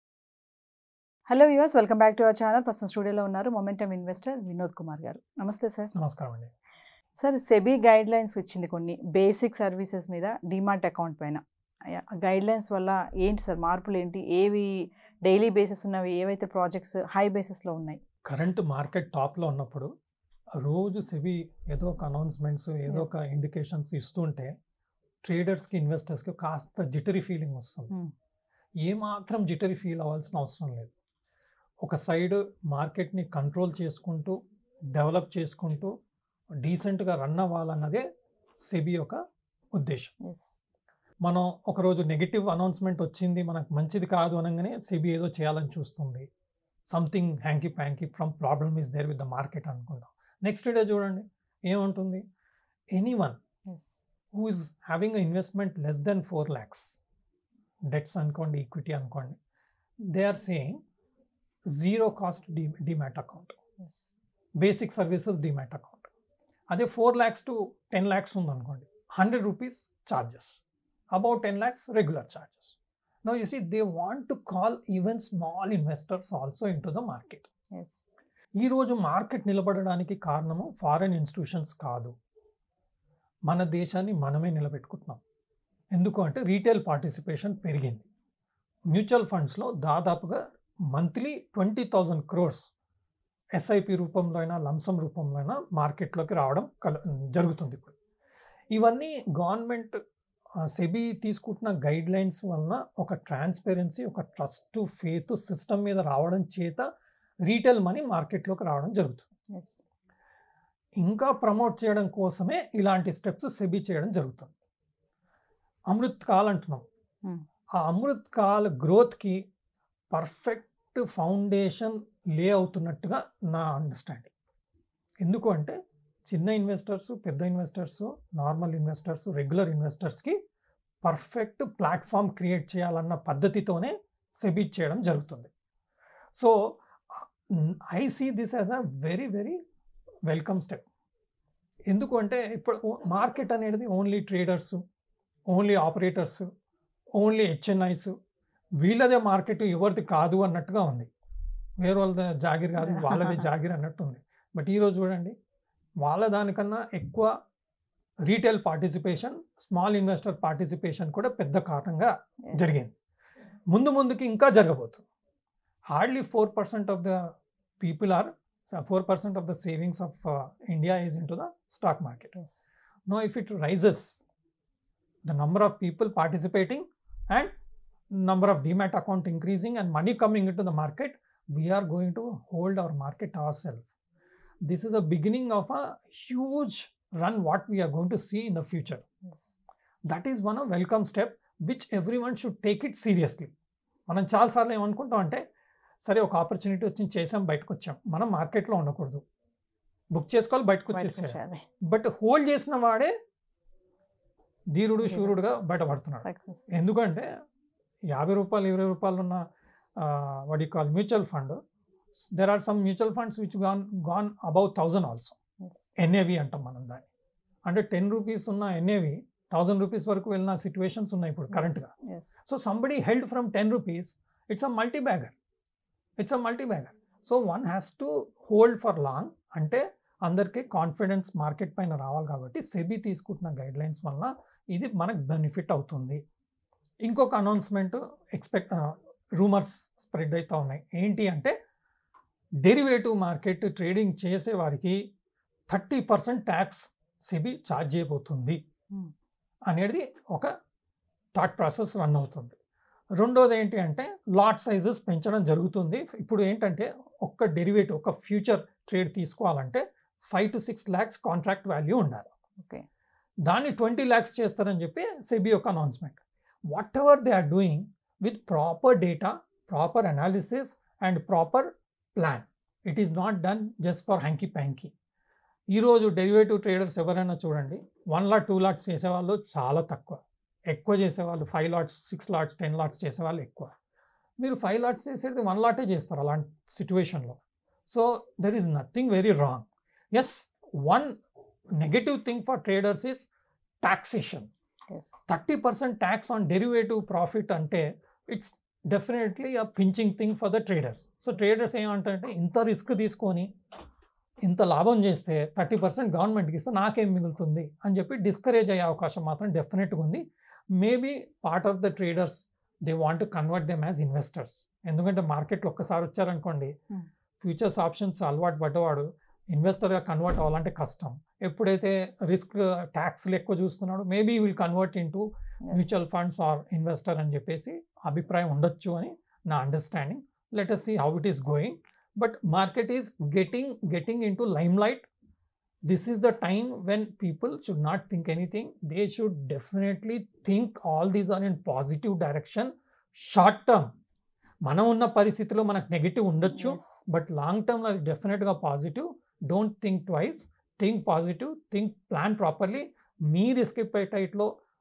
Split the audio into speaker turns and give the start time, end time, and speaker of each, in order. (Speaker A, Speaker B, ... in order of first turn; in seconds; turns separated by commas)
Speaker A: 1.3-5.9, Speaker B: 6.0-6.5, Speaker A: 7.2-18.0, Speaker B: 18.2-19.9, Speaker B: 20.6-24.5, Speaker A: 22.9-23.2, Speaker B: 25.2-27.9, Speaker B: 28.8-30.9, Speaker B: 31.8-34.4, Speaker B: 34.9-35.9, Speaker B: 36.6-38.0, Speaker B: 38.6-39.2, Speaker B: 39.8-40.1, Speaker A: 40.2-40.6, Speaker B: 41.2-46.2, Speaker B: 46.9-52.2, Speaker B: 52.9-53.4, Speaker A: 53.7-54.0, Speaker B: 54.3-57.0, Speaker B: 57.9-59.4, Speaker B: 60.1-60.8, Speaker B: 61.7-63.5, Speaker A: 63.8-64.1, Speaker B: 64.6-66.1, Speaker B: 66.7-70.6, Speaker B: 71.1-77.5, Speaker A: 77.7-78.0, Speaker B: 78.6-82.1, Speaker B: 83.5-85.2, Speaker B: 85.9-88.1, Speaker B: 88.9-90.4, Speaker B: 90.9-92.7, Speaker B: 93.5-97.9, Speaker B: 98.7-99.9, Speaker B: 100.7-106.8, Speaker B: 107.4-109.2, Speaker A: 109.5-109.8, Speaker B: 111.0-114.5, Speaker B: 115.9-116.8, Speaker B: 117.8-119.4, Speaker B: 120.1-124.3, Speaker B: 125.2-125.8, Speaker B: 126.3-130.3, Speaker B: 131.0-135.5, Speaker B: 136.3-139.6, Speaker B: 140.3-140.8, Speaker B: 141.9-144.8, Speaker B: 145.5-146.4, Speaker B: 147.2-148.1, Speaker B: 148.8-151.1, Speaker B: 151.8-155.3, Speaker A: 152.8-153.5, Speaker B: 156.0-157.3, Speaker B: 158.2-162.9, Speaker A: 162.4-162.8, Speaker B: 163.7-165.0, Speaker B: 165.9-172.3, Speaker A: 172.3-172.7, Speaker B: 173.1-174.2, Speaker B: 175.3-177.5, Speaker B: 178.1-183.9, Speaker B: 184.6-189.0, Speaker A: 189.2-189.6, Speaker B: 190.1-193.5, Speaker B: 194.1-195.4, Speaker B: 196.0-199.2, Speaker B: 200.1-203.1, Speaker A: 200.9-201.6, Speaker B: 204.7-207.3, Speaker A: 205.0-205.4, Speaker A: 206.2-206.7, Speaker B: 208.1-209.4, Speaker B: 210.0-211.6, Speaker B: 212.3-215.3, Speaker A: 215.6-215.9, Speaker B: 216.0-217.1, Speaker B: 217.7-221.9, Speaker A: 221.5-222.4, Speaker B: 222.4-225.3, Speaker B: 226.2-236.2, Speaker B: 237.0-241.5, Speaker B: 242.6-245.0, Speaker B: 245.7-248.6, Speaker B: 249.7-250.5, Speaker B: 251.3-252.6, Speaker B: 253.2-262.3, Speaker B: 263.4-274.9, Speaker B: 275.7-283.7, Speaker B: 284.4-291.1, Speaker B: 291.8-293.3, Speaker B: 293.8-294.5, Speaker A: 294.9-295.2, Speaker B: 295.3-303.5, Speaker B: 304.4-310.2, Speaker B: 310.8-316.7, Speaker B: 317.4-335.1, Speaker A: 325.6-326.0, Speaker B: 335.9-343.9, Speaker B: 344.6-354.5, Speaker A: 346.5-347.0